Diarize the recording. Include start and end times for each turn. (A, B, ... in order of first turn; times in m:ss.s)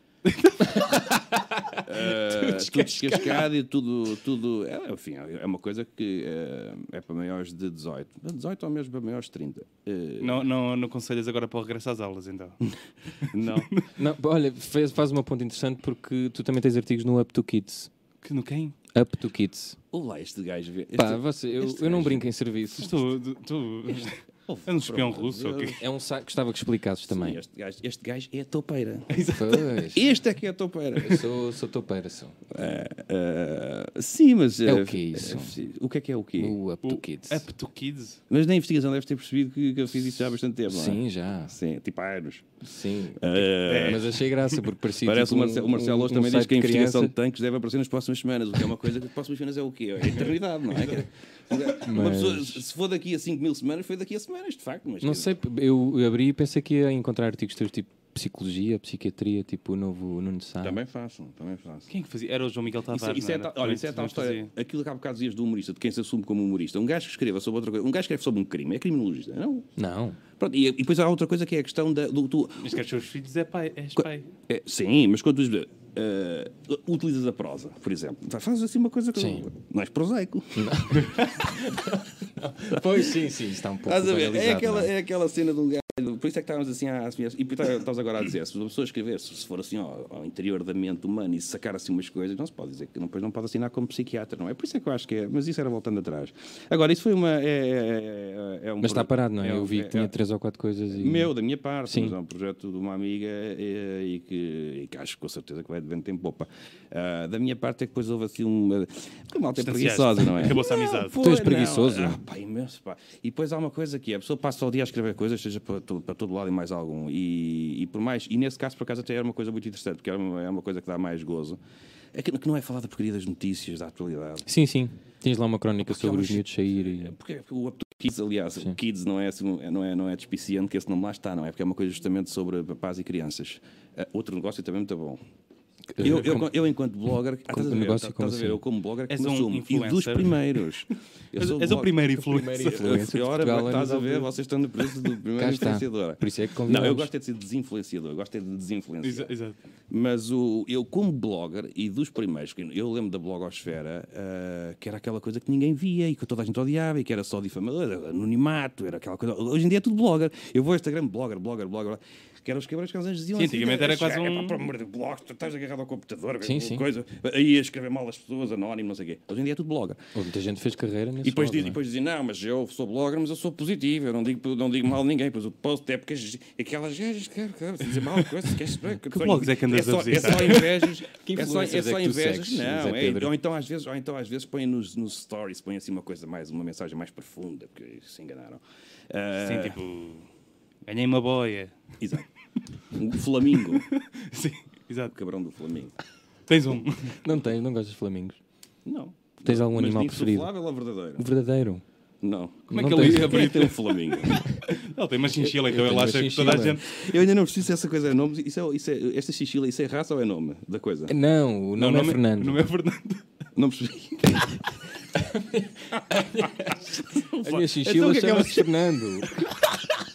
0:00.3-0:00.6 A
0:00.6-0:03.5 B
0:01.8-0:10.4 C
0:10.2-0:12.6 A
0:12.7-0:13.7 C
0:13.2-0:13.9 A
0:14.0-0:17.9 B
0:18.2-0:18.8 A
0:18.9-0:19.8 B
0:19.9-0:22.3 C
0:20.9-0:23.0 B
0:22.8-0:25.8 A
0:24.5-0:25.8 C
0:25.8-0:27.4 B
0:27.1-0:29.2 C
0:29.1-0:29.7 A
0:29.3-0:30.1 B
0:29.9-0:31.3 C
0:31.0-0:32.4 B
0:32.5-0:36.6 C
0:34.6-0:35.6 B
0:36.4-0:37.5 B
0:36.8-0:38.2 A
0:38.3-0:42.5 C
0:40.7-0:41.6 B
0:42.6-0:47.1 B
0:43.2-0:44.1 C
0:43.6-0:44.6 A
0:45.0-0:55.4 C
0:51.8-0:52.6 B
0:55.0-1:00.8 B
1:00.6-1:01.9 C
1:01.9-1:04.5 A
1:02.9-1:09.7 C
1:09.8-1:10.2 B
1:10.4-1:12.8 C
1:12.6-1:14.3 A
1:14.0-1:21.2 C
1:19.2-1:19.5 B
1:20.6-1:24.9 B
1:22.7-1:23.1 C
1:23.8-1:40.1 C
1:38.8-1:41.3 B
1:40.9-2:01.6 C
1:41.9-1:42.2 B
1:49.6-1:51.2 A
1:51.2-1:52.2 B
2:02.1-2:04.5 C
2:04.4-2:07.1 B
2:05.8-2:15.2 C
2:15.9-2:16.5 B
2:16.0-2:22.1 C
2:17.5-2:18.6 B
2:19.1-2:20.6 A
2:21.4-2:23.0 A
2:22.2-2:24.3 B
2:22.6-2:29.3 C
2:25.4-2:27.1 B
2:29.0-2:29.6 A
2:29.9-2:50.0 C
2:43.4-2:44.6 A
2:46.4-2:46.9 B
2:50.1-2:51.8 B
2:51.2-3:09.8 C
2:59.1-3:00.9 A
3:01.1-3:03.3 B
3:09.4-3:10.3 A
3:10.8-3:11.9 A
3:12.0-3:12.3 C
3:12.9-3:13.9 C
3:13.6-3:15.2 A
3:15.1-3:15.9 C
3:16.5-3:17.2 A
3:17.2-3:18.4 B
3:18.8-3:21.3 C
3:19.4-3:20.5 B
3:21.2-3:21.8 B
3:22.2-3:24.4 C
3:22.7-3:27.0 A
3:22.7-3:23.6 B
3:24.2-3:24.6 B
3:25.4-3:26.8 B
3:26.8-3:31.1 C
3:31.1-3:32.6 B
3:31.8-3:33.2 A
3:33.6-3:34.6 C
3:35.2-3:39.5 B
3:35.9-3:39.8 C